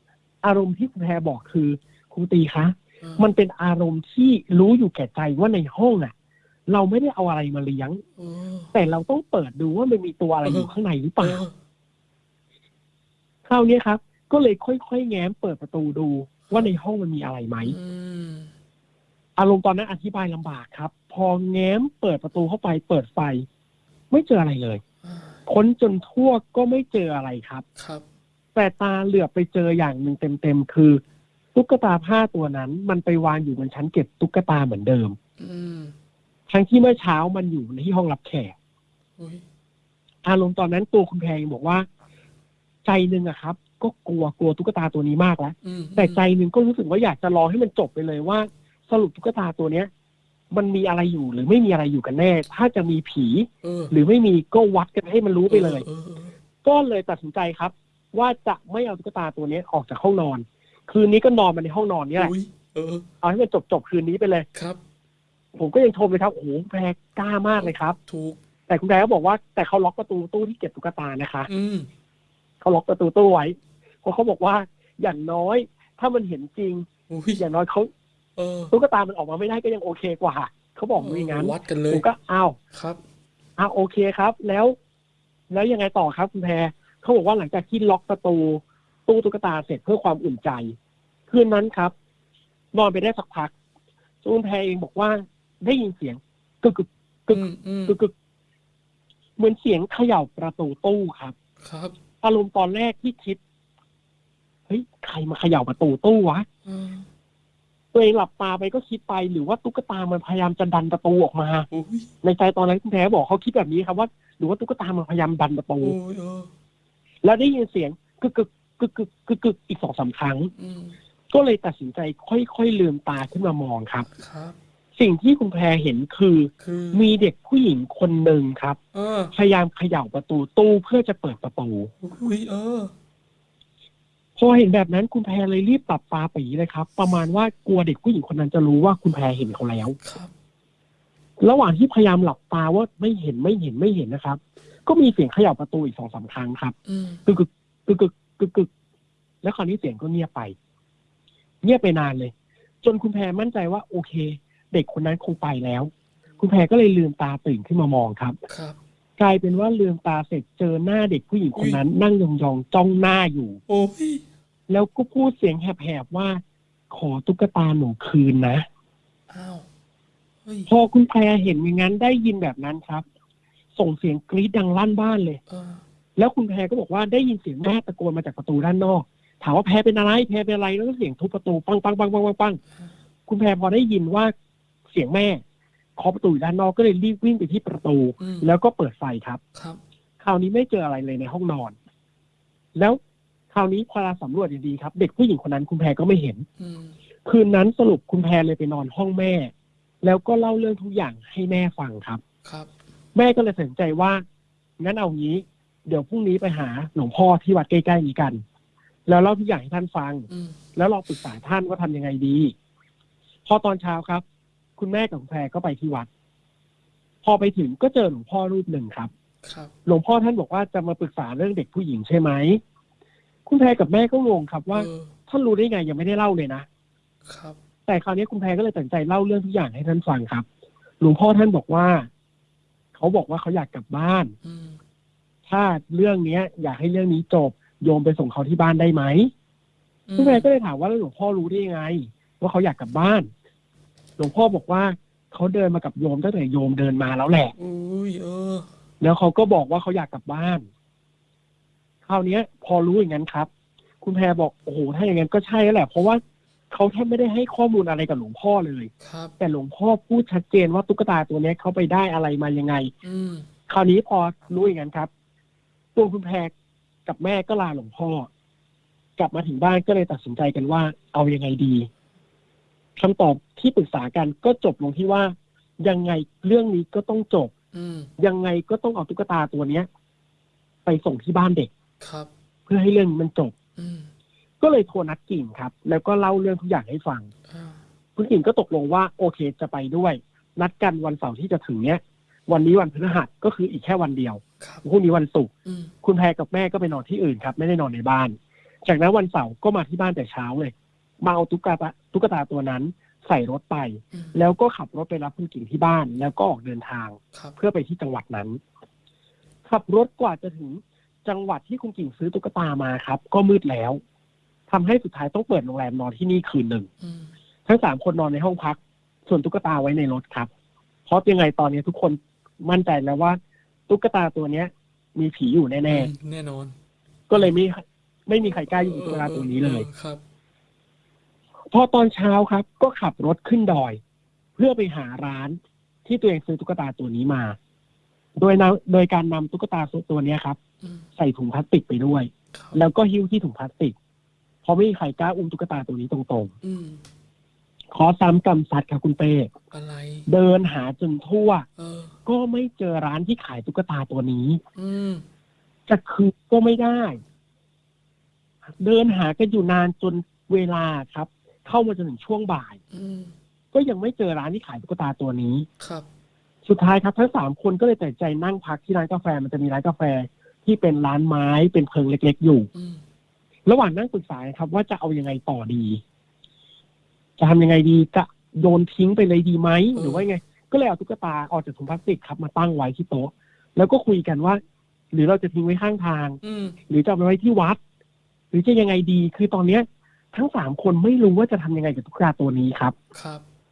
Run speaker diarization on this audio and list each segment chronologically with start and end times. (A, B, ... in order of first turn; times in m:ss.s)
0:00.4-0:06.1 A
0:03.0-0:03.3 B
0:06.7-0:08.0 A
0:08.2-0:08.7 B
0:08.7-0:11.4 A
0:10.4-0:10.7 B
0:11.2-0:11.5 B
0:13.5-0:17.8 A
0:17.6-0:18.5 B
0:19.4-0:23.5 A
0:24.1-0:24.8 A
0:25.0-0:25.4 B
0:25.5-0:27.6 A
0:27.8-0:28.0 B
0:28.6-0:31.0 A
0:31.6-0:35.2 A
0:35.4-0:35.9 B
0:36.5-0:38.6 A
0:39.2-0:39.4 B
0:40.2-0:41.9 A
0:42.8-0:49.9 A
0:45.6-0:46.2 B
0:50.5-0:55.8 A
0:53.6-0:53.9 B
0:55.5-0:56.3 B
0:56.6-1:02.3 A
1:02.2-1:03.1 B
1:03.2-1:04.5 A
1:04.5-1:04.8 B
1:05.6-1:08.0 A
1:07.6-1:08.4 B
1:08.7-1:11.5 A
1:11.5-1:11.9 B
1:12.6-1:16.9 A
1:17.1-1:17.4 B
1:17.4-1:17.9 A
1:18.4-1:18.7 B
1:18.7-1:22.6 A
1:21.0-1:22.0 B
1:22.7-1:23.0 B
1:23.6-1:24.8 A
1:25.5-1:30.8 A
1:31.3-1:31.9 A
1:32.7-1:33.5 A
1:34.2-1:38.1 A
1:37.3-1:38.0 B
1:39.4-1:41.4 A
1:41.6-1:42.0 B
1:42.2-1:43.4 A
1:44.7-1:46.5 A
1:46.7-1:47.1 B
1:47.9-1:51.7 A
1:51.7-1:52.1 B
1:52.2-1:56.0 A
1:55.8-1:56.5 B
1:57.2-2:00.5 A
2:00.5-2:01.0 B
2:01.3-2:04.1 A
2:04.1-2:04.6 B
2:05.0-2:08.8 A
2:06.6-2:07.1 B
2:08.9-2:09.3 B
2:09.3-2:11.9 A
2:12.0-2:12.9 B
2:14.4-2:20.0 A
2:20.0-2:20.3 B
2:21.4-2:28.7 A
2:26.9-2:27.2 B
2:29.4-2:30.5 A
2:31.6-2:38.4 A
2:38.5-2:38.8 B
2:39.2-2:43.6 A
2:41.6-2:41.8 B
2:43.7-2:44.2 B
2:44.7-2:48.7 A
2:49.3-2:49.7 B
2:50.4-2:50.7 B
2:50.7-2:53.0 A
2:53.8-2:55.4 A
2:55.5-2:55.8 B
2:56.2-3:02.6 A
3:03.3-3:04.3 A
3:04.9-3:05.4 A
3:06.0-3:09.4 A
3:08.2-3:08.5 B
3:10.2-3:11.8 A
3:13.5-3:16.5 A
3:16.6-3:17.0 B
3:17.2-3:19.5 A
3:20.0-3:22.2 A
3:22.4-3:22.7 B
3:23.2-3:24.2 A
3:24.8-3:28.4 A
3:29.1-3:32.5 A
3:30.3-3:30.6 B
3:33.5-3:34.2 A
3:34.8-3:36.1 A
3:37.2-3:39.1 A
3:39.4-3:39.7 B
3:39.9-3:42.6 A
3:43.5-3:46.7 A
3:44.7-3:45.1 B
3:47.2-3:47.6 B
3:47.9-3:50.4 A
3:51.0-3:52.1 A
3:53.0-3:54.3 A
3:54.4-3:54.8 B
3:55.5-3:59.3 A
4:00.1-4:00.5 B
4:00.2-4:03.3 A
4:04.2-4:07.5 A
4:07.6-4:08.7 B
4:09.0-4:10.6 A
4:12.1-4:13.5 A
4:14.0-4:22.9 A
4:19.0-4:19.3 B
4:23.0-4:23.5 B
4:23.7-4:25.1 A
4:26.0-4:26.5 A
4:27.1-4:28.3 A
4:29.2-4:31.9 A
4:33.0-4:37.5 A
4:37.7-4:38.1 B
4:38.2-4:39.9 A
4:40.9-4:41.7 A
4:42.0-4:42.3 B
4:42.7-4:43.5 A
4:43.8-4:44.1 B
4:44.6-4:47.3 A
4:47.5-4:47.8 B
4:48.2-4:55.5 A
4:55.6-4:55.9 B
4:56.0-5:08.6 A
5:09.7-5:14.0 A
5:14.7-5:16.9 A
5:17.0-5:17.3 B
5:17.7-5:20.5 A
5:21.1-5:26.1 A
5:25.9-5:26.7 B
5:27.3-5:29.9 A
5:28.4-5:30.2 B
5:31.7-5:34.0 A
5:34.6-5:37.6 A
5:38.4-5:40.6 A
5:40.8-5:41.1 B
5:41.2-5:44.0 A
5:42.5-5:42.8 B
5:44.6-5:46.5 A
5:46.6-5:47.0 B
5:47.9-5:49.5 A
5:49.7-5:50.3 B
5:50.3-5:51.7 A
5:51.8-5:52.1 B
5:52.3-5:54.6 A
5:54.8-5:55.2 B
5:55.9-5:57.2 A
5:58.8-6:02.8 A
6:02.9-6:03.3 B
6:03.7-6:05.7 A
6:05.8-6:06.1 B
6:06.7-6:12.7 A
6:12.7-6:13.0 B
6:13.7-6:16.0 A
6:17.4-6:24.6 A
6:20.0-6:20.3 B
6:25.1-6:27.8 A
6:26.4-6:26.8 B
6:28.5-6:33.0 A
6:33.1-6:33.4 B